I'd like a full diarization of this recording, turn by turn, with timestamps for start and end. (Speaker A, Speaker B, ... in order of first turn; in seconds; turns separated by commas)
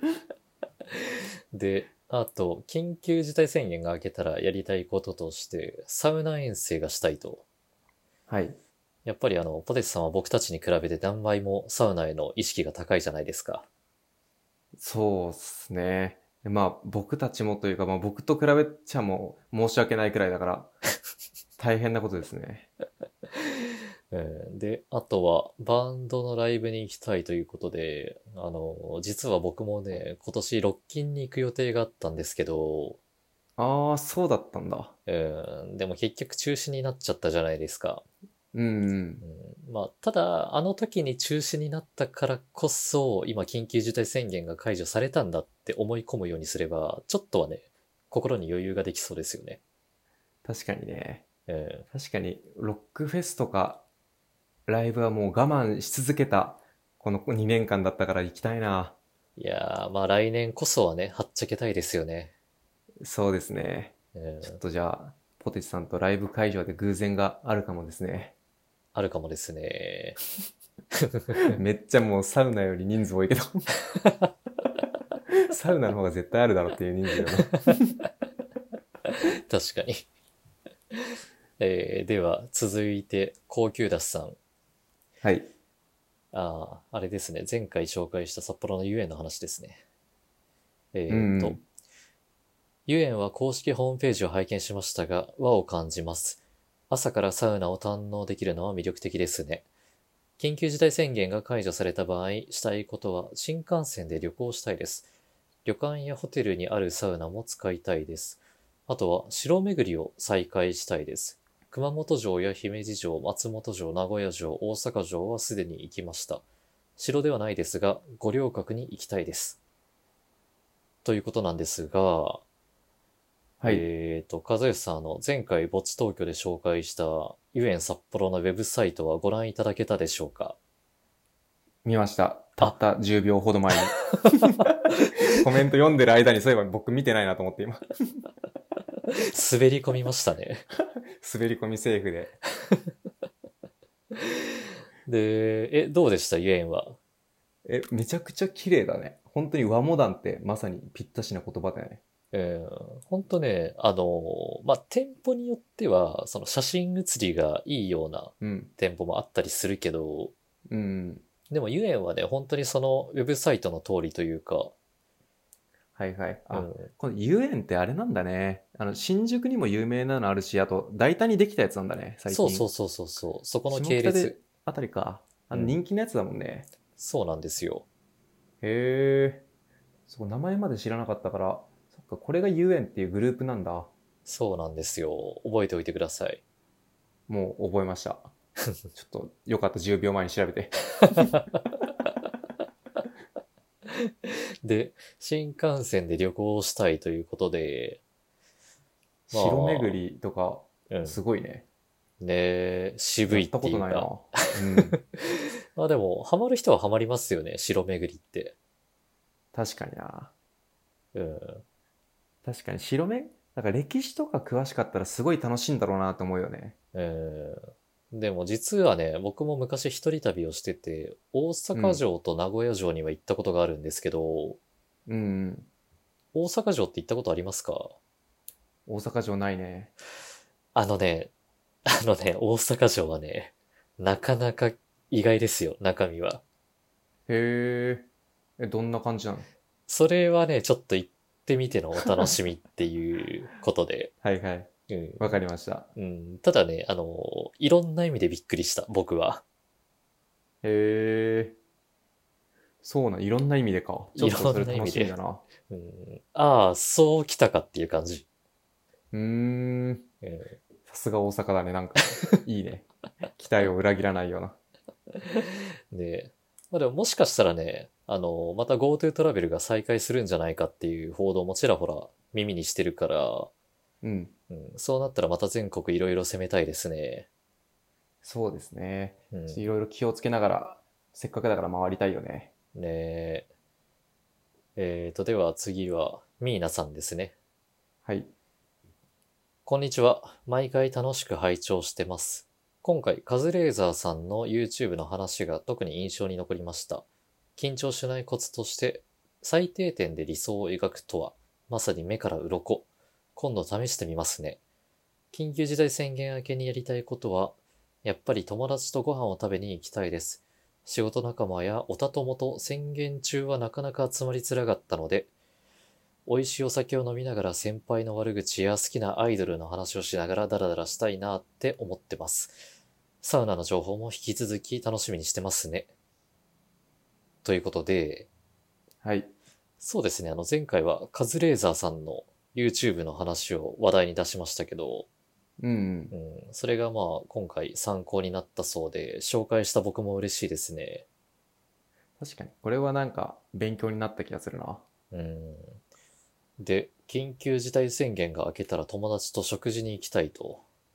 Speaker A: 0.9-7.4, Speaker B: 8.3-8.6, Speaker A: 9.0-13.7, Speaker B: 14.8-20.7, Speaker B: 21.6-22.7, Speaker A: 24.1-33.0, Speaker B: 33.6-34.9, Speaker A: 35.1-38.0, Speaker B: 38.5-39.2, Speaker A: 39.2-49.6, Speaker B: 50.4-51.2, Speaker A: 51.5-51.8, Speaker B: 51.9-53.8, Speaker B: 54.7-59.0, Speaker A: 59.4-62.3, Speaker B: 63.0-68.3, Speaker A: 64.1-64.6, Speaker A: 68.9-70.2, Speaker A: 71.0-71.6, Speaker B: 71.5-73.7, Speaker A: 74.0-74.3, Speaker B: 75.4-77.7, Speaker A: 79.0-80.1, Speaker A: 81.6-84.4, Speaker B: 85.2-85.5, Speaker A: 86.3-89.8, Speaker A: 90.9-91.6, Speaker B: 91.1-91.6, Speaker A: 92.9-99.7, Speaker A: 100.4-105.1, Speaker A: 105.6-116.4, Speaker A: 117.0-119.6, Speaker A: 121.0-122.4, Speaker B: 123.6-123.8, Speaker A: 123.6-130.6, Speaker B: 131.8-137.8, Speaker A: 134.2-135.2, Speaker A: 139.1-140.7, Speaker B: 141.1-142.3, Speaker A: 144.1-144.5, Speaker A: 145.1-147.0, Speaker B: 147.7-152.0, Speaker A: 152.3-160.3, Speaker B: 158.4-158.7, Speaker B: 160.7-161.2, Speaker A: 161.5-164.7, Speaker B: 166.0-172.7, Speaker A: 166.5-166.9, Speaker A: 172.3-174.3, Speaker B: 173.7-176.7, Speaker A: 175.5-175.8, Speaker A: 176.9-177.8, Speaker B: 178.6-179.4, Speaker B: 180.1-183.9, Speaker A: 184.2-186.4, Speaker B: 187.3-188.3, Speaker B: 188.9-191.3, Speaker A: 191.0-191.4, Speaker A: 193.9-198.0, Speaker B: 199.3-201.7, Speaker A: 199.3-200.0, Speaker A: 200.9-201.2, Speaker A: 202.2-208.6, Speaker B: 203.3-205.0, Speaker B: 209.5-210.3, Speaker A: 211.1-211.6, Speaker B: 212.4-216.8, Speaker A: 216.9-224.6, Speaker B: 221.7-222.0, Speaker B: 225.1-225.7, Speaker A: 226.3-227.9, Speaker B: 228.9-229.9, Speaker A: 230.7-231.3, Speaker A: 231.9-236.4, Speaker B: 237.3-238.1, Speaker B: 238.6-239.5, Speaker A: 239.9-244.1, Speaker B: 244.2-245.9, Speaker A: 244.9-245.4, Speaker A: 245.9-249.4, Speaker B: 250.6-251.6, Speaker B: 252.8-255.4, Speaker A: 254.2-255.2, Speaker A: 255.7-258.2, Speaker B: 259.1-260.1, Speaker A: 260.2-260.6, Speaker B: 260.9-264.6, Speaker A: 265.1-273.5, Speaker B: 274.0-274.3, Speaker A: 274.5-277.3, Speaker B: 278.2-282.5, Speaker A: 279.3-279.6, Speaker A: 282.7-283.5, Speaker A: 284.8-287.3, Speaker B: 288.0-288.3, Speaker A: 289.6-297.0, Speaker A: 297.6-304.6, Speaker A: 305.3-315.3, Speaker A: 316.2-322.6, Speaker A: 323.2-325.9, Speaker A: 327.4-328.3, Speaker B: 329.0-329.3, Speaker A: 329.8-335.1, Speaker B: 335.6-336.1, Speaker A: 336.1-341.1, Speaker B: 342.2-344.8, Speaker A: 345.1-345.8, Speaker A: 346.6-350.6